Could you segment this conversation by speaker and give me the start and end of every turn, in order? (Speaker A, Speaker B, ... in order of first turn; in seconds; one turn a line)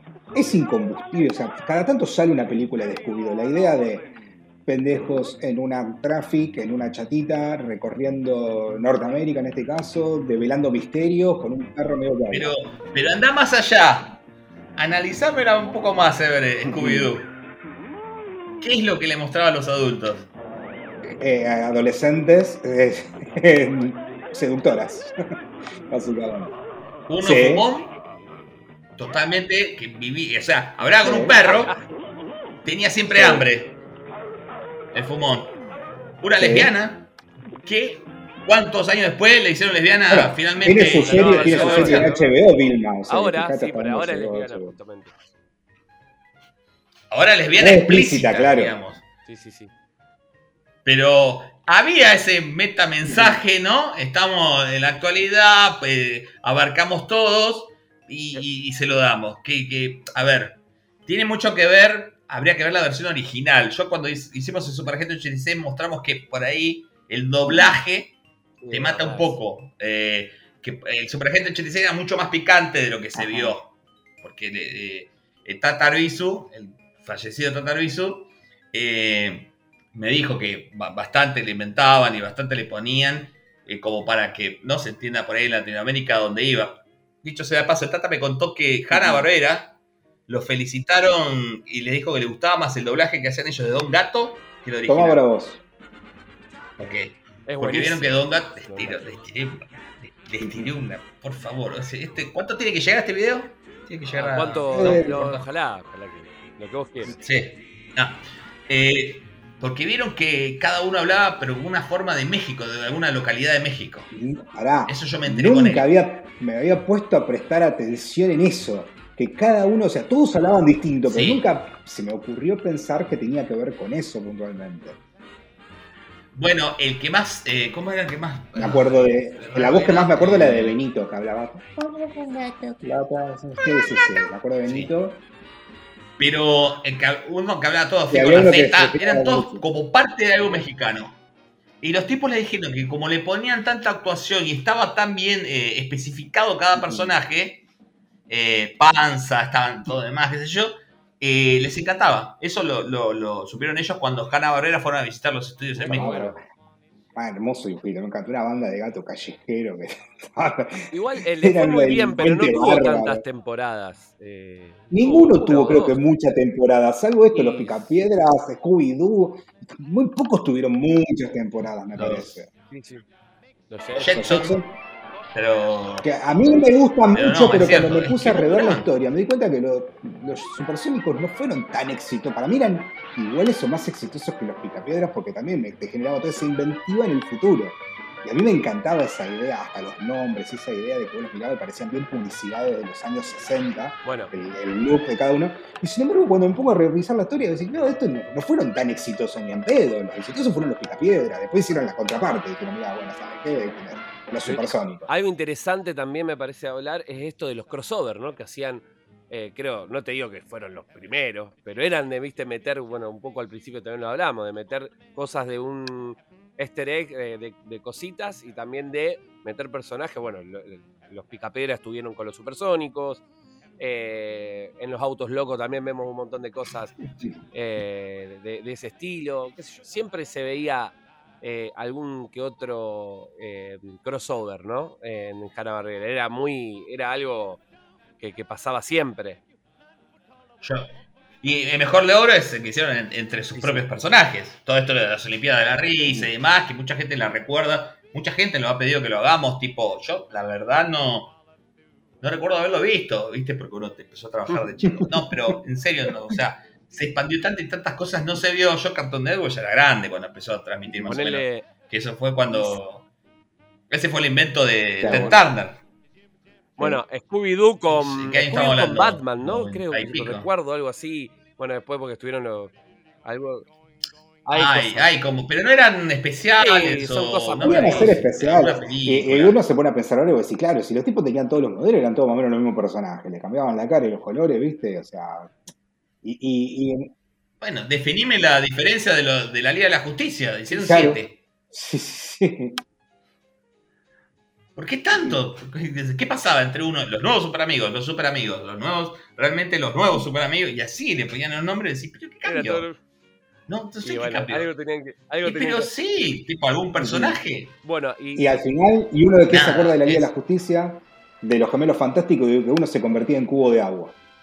Speaker A: 0.3-4.1
Speaker A: 4.7-12.5
Speaker B: 12.3-14.2
Speaker B: 14.8-17.3
Speaker A: 16.7-17.1
Speaker B: 18.6-20.3
Speaker A: 21.2-25.1
Speaker A: 25.9-26.6
Speaker B: 27.1-27.9
Speaker A: 27.2-27.7
Speaker B: 29.0-31.8
Speaker A: 31.0-31.4
Speaker C: 31.4-31.8
Speaker B: 32.6-33.8
Speaker A: 33.1-33.5
Speaker B: 34.9-35.5
Speaker B: 36.2-37.1
Speaker A: 36.4-36.7
Speaker B: 37.6-42.1
Speaker A: 40.1-44.8
Speaker C: 41.0-42.3
Speaker C: 43.1-45.1
Speaker B: 47.1-49.0
Speaker A: 47.6-48.8
Speaker C: 49.2-49.7
Speaker B: 50.9-68.2
Speaker A: 53.0-53.4
Speaker A: 67.5-67.8
Speaker C: 68.6-69.4
Speaker B: 68.7-89.8
Speaker A: 73.2-73.6
Speaker A: 88.9-89.3
Speaker B: 90.3-95.2
Speaker A: 94.9-95.6
Speaker B: 96.8-105.0
Speaker C: 97.5-99.1
Speaker A: 100.4-100.7
Speaker C: 104.1-107.2
Speaker A: 104.7-105.4
Speaker B: 107.2-114.1
Speaker A: 114.1-125.0
Speaker B: 114.9-115.9
Speaker B: 121.1-121.5
Speaker B: 126.3-130.8
Speaker A: 128.6-135.2
Speaker B: 134.6-134.9
Speaker B: 136.2-141.2
Speaker A: 138.1-139.6
Speaker C: 140.4-140.7
Speaker B: 141.8-147.6
Speaker A: 146.7-147.1
Speaker B: 148.3-156.3
Speaker C: 155.8-156.2
Speaker A: 155.9-156.4
Speaker A: 157.2-163.2
Speaker C: 160.9-166.0
Speaker A: 164.9-172.5
Speaker C: 167.3-168.0
Speaker B: 172.0-172.3
Speaker C: 172.7-173.1
Speaker C: 173.7-174.3
Speaker B: 173.9-174.6
Speaker A: 174.1-174.7
Speaker B: 175.3-176.2
Speaker A: 176.0-205.1
Speaker B: 177.1-178.9
Speaker C: 194.1-194.3
Speaker C: 204.4-223.2
Speaker C: 223.8-227.0
Speaker C: 227.5-237.6
Speaker C: 238.2-239.4
Speaker B: 240.6-240.9
Speaker B: 241.4-251.4
Speaker C: 243.6-243.8
Speaker A: 246.0-246.3
Speaker B: 252.2-263.1
Speaker A: 255.0-255.3
Speaker A: 260.9-261.2
Speaker C: 261.1-261.7
Speaker C: 262.5-262.8
Speaker B: 263.9-265.8
Speaker A: 265.0-265.4
Speaker C: 265.1-265.4
Speaker C: 266.8-273.7
Speaker B: 267.9-270.5
Speaker C: 274.4-275.1
Speaker B: 274.5-279.6
Speaker C: 276.6-278.9
Speaker A: 277.6-285.5
Speaker A: 286.2-287.1
Speaker B: 287.6-291.4
Speaker A: 290.7-292.8
Speaker B: 294.8-302.9
Speaker A: 295.1-295.4
Speaker C: 302.4-303.0
Speaker B: 303.7-304.7
Speaker C: 304.0-305.9
Speaker B: 305.4-307.8
Speaker A: 307.0-307.4
Speaker C: 307.8-308.6
Speaker A: 308.4-314.2
Speaker B: 309.5-310.3